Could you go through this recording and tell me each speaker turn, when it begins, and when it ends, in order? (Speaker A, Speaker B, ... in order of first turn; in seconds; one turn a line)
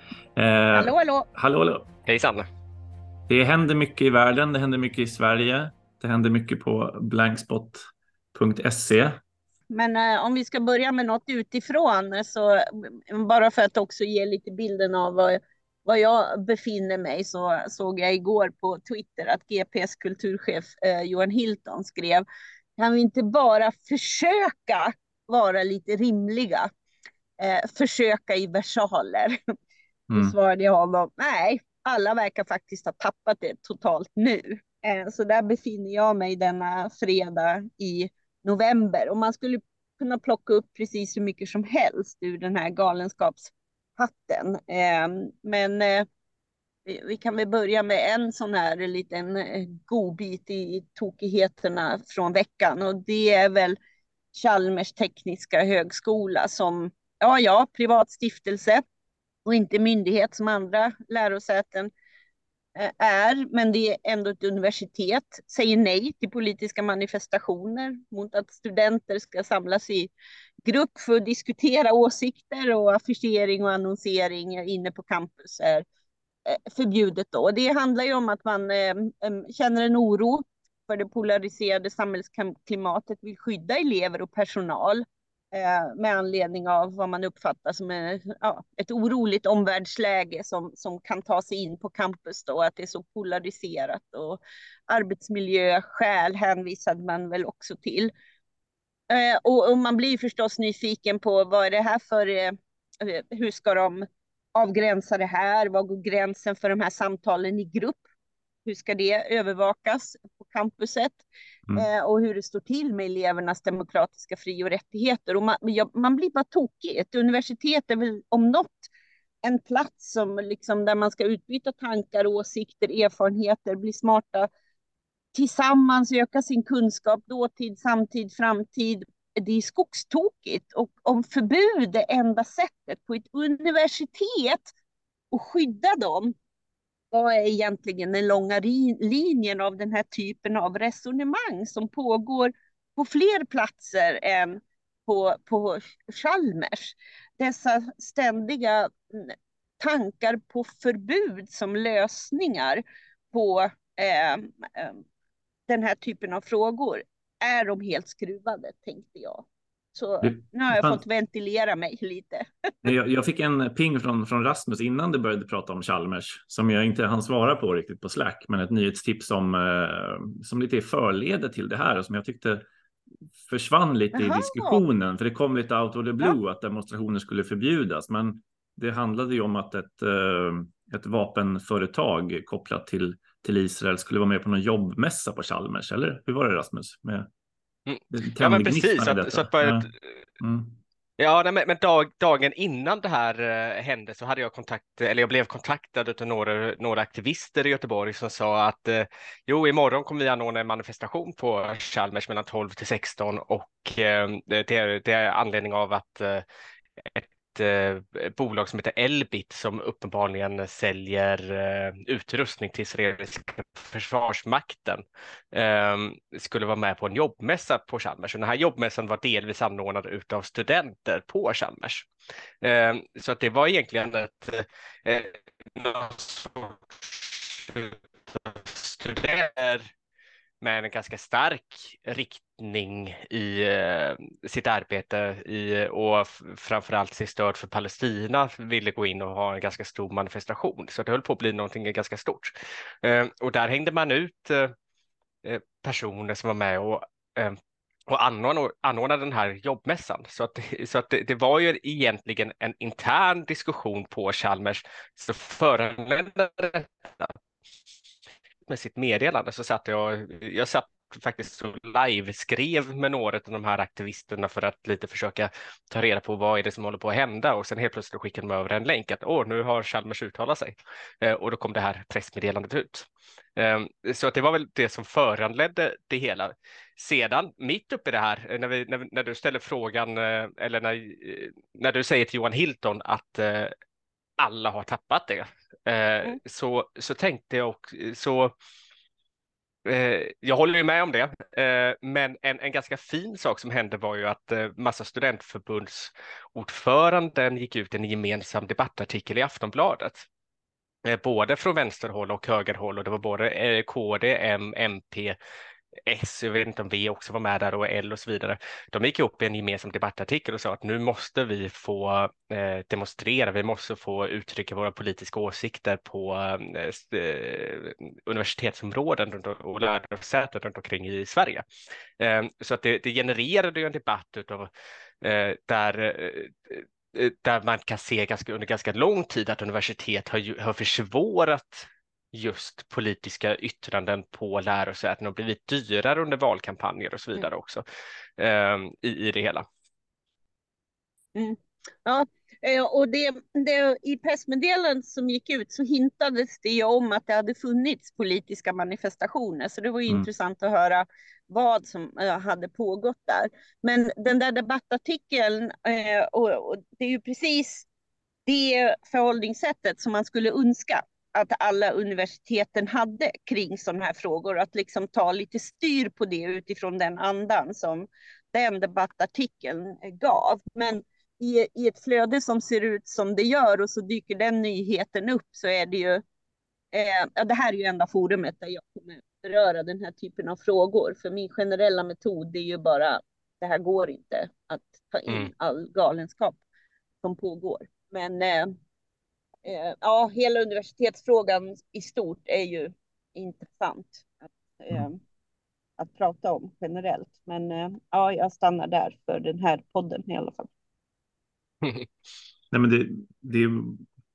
Speaker A: 0.3-1.9
Speaker B: 0.7-1.3
Speaker C: 2.0-2.5
Speaker A: 3.3-9.2
Speaker B: 9.7-22.2
Speaker B: 22.8-26.7
Speaker B: 27.4-29.4
Speaker A: 30.1-30.3
Speaker B: 30.1-46.1
Speaker B: 46.9-53.8
Speaker B: 54.3-58.8
Speaker B: 59.4-61.9
Speaker B: 62.8-70.1
Speaker B: 70.7-75.8
Speaker B: 76.5-98.1
Speaker B: 99.1-108.0
Speaker B: 108.6-118.9
Speaker B: 119.4-124.5
Speaker B: 125.3-134.7
Speaker B: 135.3-136.3
Speaker B: 137.1-155.0
Speaker B: 155.7-162.8
Speaker A: 160.2-161.0
Speaker A: 162.8-172.7
Speaker A: 173.4-187.3
Speaker B: 174.1-174.8
Speaker C: 187.8-190.2
Speaker A: 188.1-189.9
Speaker A: 190.4-190.8
Speaker C: 191.2-206.4
Speaker C: 207.0-222.1
Speaker C: 222.6-229.9
Speaker C: 230.6-244.7
Speaker C: 245.4-257.4
Speaker C: 258.7-283.7
Speaker C: 284.4-288.5
Speaker C: 289.8-300.3
Speaker C: 301.0-305.4
Speaker C: 306.1-321.6
Speaker C: 322.2-324.7
Speaker C: 325.2-337.8
Speaker C: 338.4-339.6
Speaker B: 341.3-357.9
Speaker B: 358.4-376.2
Speaker B: 376.9-386.6
Speaker B: 387.2-388.8
Speaker B: 389.6-395.2
Speaker B: 396.0-400.7
Speaker C: 401.8-402.1
Speaker A: 402.7-404.0